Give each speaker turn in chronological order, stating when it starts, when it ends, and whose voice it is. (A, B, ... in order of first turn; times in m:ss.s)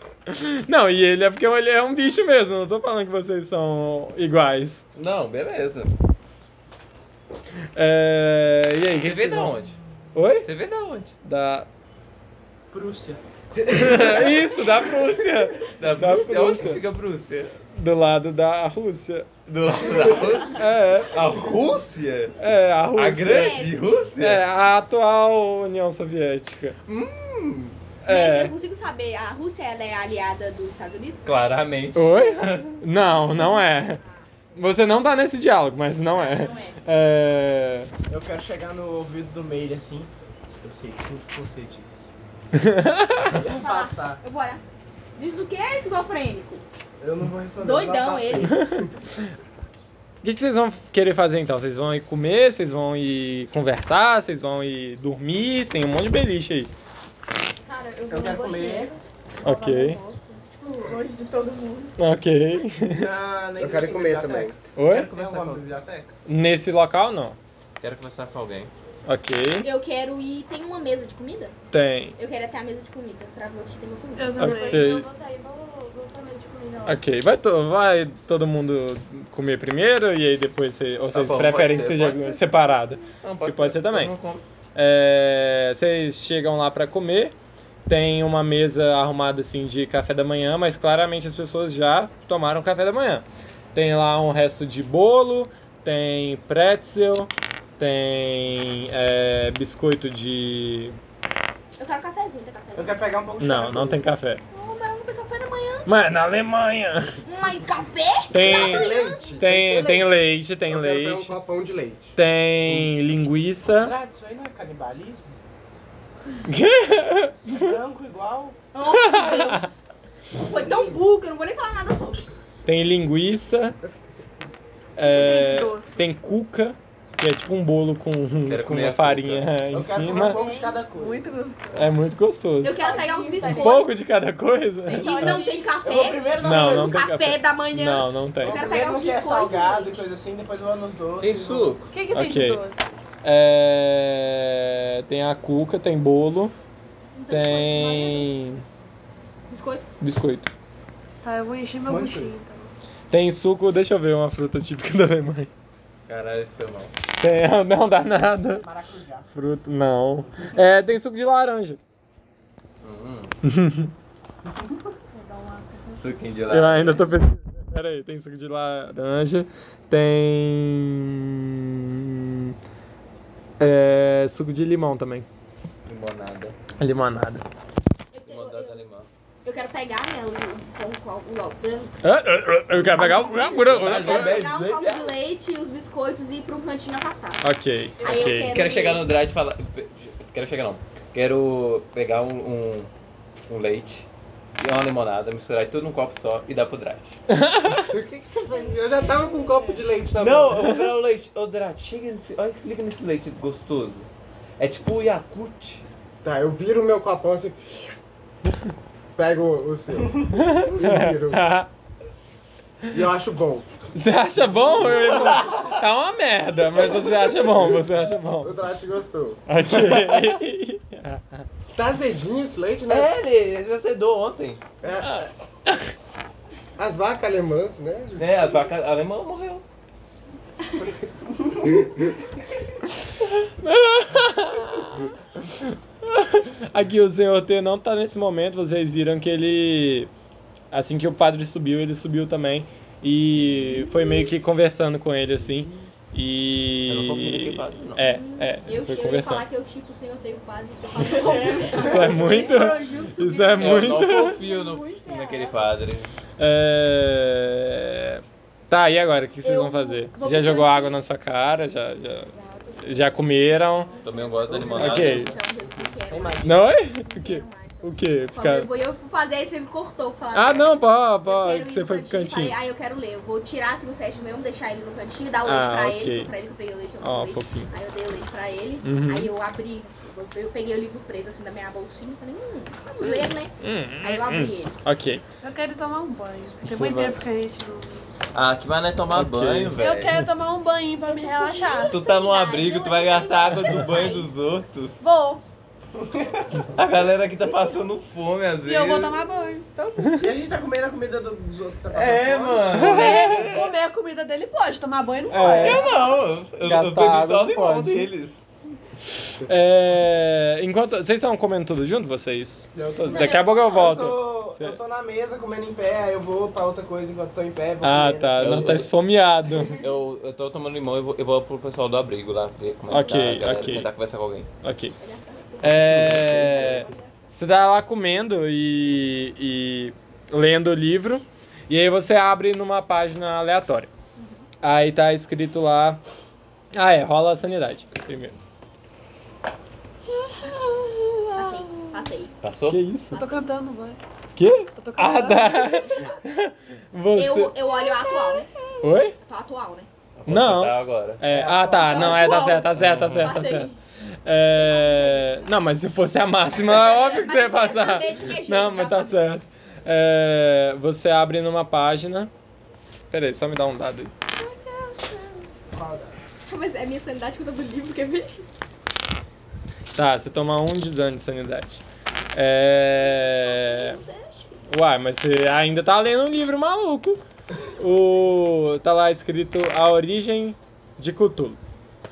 0:00.3-0:04.8 A
0:05.0-0:05.9 B
0:07.8-0:09.6 A
0:09.0-0:09.8 B
0:10.1-0:10.5 A
0:10.4-0:11.2 B
0:11.2-0:11.7 A
0:12.7-0:13.2 C
0:13.7-0:16.8 A
0:13.8-0:14.2 B
0:15.6-0:17.6 B
0:17.7-0:21.2 A
0:19.5-0:22.4 B
0:22.4-0:23.6 A
0:22.9-0:24.4 B
0:23.2-0:24.0 D
0:24.2-0:26.8 A
0:26.8-0:27.8 B
0:28.0-0:28.5 A
0:28.1-0:31.4 D
0:31.2-0:32.8 B
0:31.9-0:34.0 A
0:33.2-0:34.4 D
0:34.5-0:37.9 A
0:36.1-0:36.8 D
0:38.1-0:42.1 C
0:42.5-0:43.4 A
0:43.3-0:44.2 C
0:43.4-0:44.6 D
0:45.2-0:46.6 D
0:47.0-0:48.6 C
0:47.6-0:48.6 D
0:48.5-0:48.9 A
0:50.2-0:56.7 A
0:57.7-1:01.2 E
0:58.1-0:58.9 C
0:59.4-1:00.0 A
1:00.6-1:01.9 D
1:02.0-1:03.1 A
1:02.9-1:06.1 C
1:03.6-1:04.6 F
1:04.8-1:05.1 A
1:04.9-1:05.6 B
1:06.2-1:07.4 A
1:07.8-1:08.7 B
1:09.0-1:09.7 A
1:09.6-1:11.6 D
1:11.7-1:12.2 A
1:12.2-1:14.9 D
1:14.2-1:17.0 E
1:14.4-1:15.1 A
1:16.8-1:24.1 A
1:21.1-1:22.4 B
1:23.2-1:24.4 B
1:24.7-1:27.3 A
1:27.9-1:41.0 A
1:41.8-1:43.0 D
1:42.7-1:44.0 C
1:43.4-1:44.4 A
1:44.5-1:45.9 D
1:45.8-1:47.2 A
1:47.2-1:49.3 D
1:48.3-1:51.4 A
1:48.4-1:50.1 F
1:50.7-1:52.1 F
1:52.2-1:53.9 A
1:53.7-1:55.3 C
1:56.4-1:57.8 A
1:57.5-1:58.6 C
1:58.7-1:59.8 D
1:58.8-1:59.7 A
2:00.4-2:02.3 D
2:02.6-2:03.8 A
2:05.0-2:10.4 A
2:05.0-2:06.0 E
2:08.5-2:09.5 B
2:09.7-2:11.3 C
2:10.2-2:10.7 D
2:10.4-2:11.9 E
2:11.7-2:12.8 A
2:12.6-2:13.9 D
2:12.7-2:13.9 E
2:13.4-2:15.4 A
2:14.8-2:20.0 D
2:14.9-2:15.7 E
2:15.8-2:17.0 C
2:16.4-2:18.6 A
2:18.4-2:21.8 C
2:21.2-2:21.9 B
2:21.9-2:22.9 E
2:22.1-2:22.6 A
2:23.2-2:26.5 A
2:27.1-2:28.3 D
2:27.3-2:28.6 A
2:29.5-2:29.9 D
2:30.0-2:30.5 A
2:31.2-2:32.7 E
2:31.9-2:32.3 C
2:33.1-2:35.5 A
2:36.1-2:36.9 B
2:37.2-2:38.7 A
2:38.6-2:39.3 C
2:39.3-2:41.8 A
2:42.8-2:43.3 B
2:43.4-2:43.9 A
2:45.1-2:46.0 E
2:45.9-2:47.1 B
2:46.5-2:52.6 A
2:53.6-2:55.2 A
2:55.8-2:56.8 B
2:56.7-2:57.4 A
2:58.1-2:58.8 D
2:58.2-2:59.1 B
2:59.4-3:02.0 D
3:02.0-3:04.5 A
3:02.8-3:07.4 D
3:03.5-3:05.2 B
3:07.4-3:08.6 A
3:08.0-3:09.1 D
3:08.0-3:08.3 E
3:08.0-3:12.9 B
3:13.5-3:14.1 B
3:14.6-3:17.2 B
3:17.3-3:18.0 A
3:17.8-3:20.9 F
3:18.6-3:19.8 E
3:20.2-3:25.8 B
3:26.2-3:27.9 F
3:29.2-3:31.4 F
3:30.3-3:31.7 A
3:32.9-3:33.7 F
3:33.9-3:38.6 A
3:34.9-3:35.7 B
3:38.4-3:39.4 F
3:39.5-3:41.4 A
3:41.7-3:43.1 F
3:42.9-3:44.6 B
3:44.8-3:45.2 F
3:45.0-3:45.9 A
3:46.8-3:48.3 F
3:48.2-3:49.6 B
3:51.6-3:52.1 F
3:53.4-4:00.1 A
4:00.7-4:09.4 A
4:06.9-4:08.0 B
4:08.0-4:13.9 D
4:11.0-4:15.1 E
4:11.7-4:14.4 A
4:13.6-4:16.1 B
4:14.4-4:15.6 D
4:16.4-4:24.0 A
4:19.4-4:21.0 D
4:22.5-4:22.8 E
4:24.0-4:44.8 D
4:24.0-4:25.4 B
4:24.4-4:26.7 C
4:24.7-4:25.3 A
4:26.4-4:28.7 A
4:30.3-4:32.6 A
4:35.4-4:36.3 A
4:37.0-4:37.7 A
4:38.8-4:39.3 A
4:42.9-4:43.3 E
4:43.6-4:45.2 A
4:45.4-4:48.1 E
4:46.6-4:47.1 B
4:48.3-4:50.1 B
4:49.1-4:49.8 A
4:49.7-4:54.3 E
4:51.0-4:54.3 D
4:51.9-4:54.9 B
4:55.0-4:55.4 E
4:55.9-4:56.7 C
4:56.7-4:59.2 B
4:58.6-4:59.7 E
5:00.0-5:00.3 A
5:00.1-5:02.9 C
5:01.9-5:03.8 B
5:02.7-5:03.4 A
5:02.8-5:06.2 E
5:05.3-5:05.9 A
5:05.4-5:08.4 B
5:06.6-5:08.1 A
5:09.4-5:14.8 A
5:12.7-5:18.8 C
5:13.1-5:13.9 D
5:17.8-5:19.8 A
5:18.4-5:18.9 B
5:19.7-5:24.5 B
5:22.9-5:23.9 A
5:24.6-5:25.0 A
5:25.0-5:27.3 D
5:25.6-5:33.9 A
5:25.9-5:26.8 B
5:34.2-5:34.5 D
5:34.6-5:36.0 A
5:36.7-5:38.4 A
5:40.1-5:42.1 E
5:41.3-5:42.3 D
5:42.4-5:42.8 B
5:42.7-5:43.2 A
5:43.1-5:43.4 D
5:43.1-5:44.0 E
5:44.4-5:47.5 A
5:44.8-5:46.0 E
5:45.8-5:46.2 D
5:47.1-5:48.5 D
5:47.6-5:48.9 E
5:48.8-5:49.2 A
5:49.2-5:49.9 D
5:50.2-5:51.2 B
5:50.3-5:53.7 A
5:51.2-5:52.4 C
5:51.7-5:53.8 D
5:52.8-5:53.3 B
5:54.2-6:02.3 A
5:54.5-5:55.5 D
5:56.6-5:59.2 D
6:03.1-6:04.1 A
6:04.3-6:05.5 E
6:05.7-6:06.2 C
6:06.4-6:08.4 D
6:09.9-6:14.0 A
6:12.9-6:14.6 D
6:14.7-6:17.2 A
6:17.8-6:21.6 A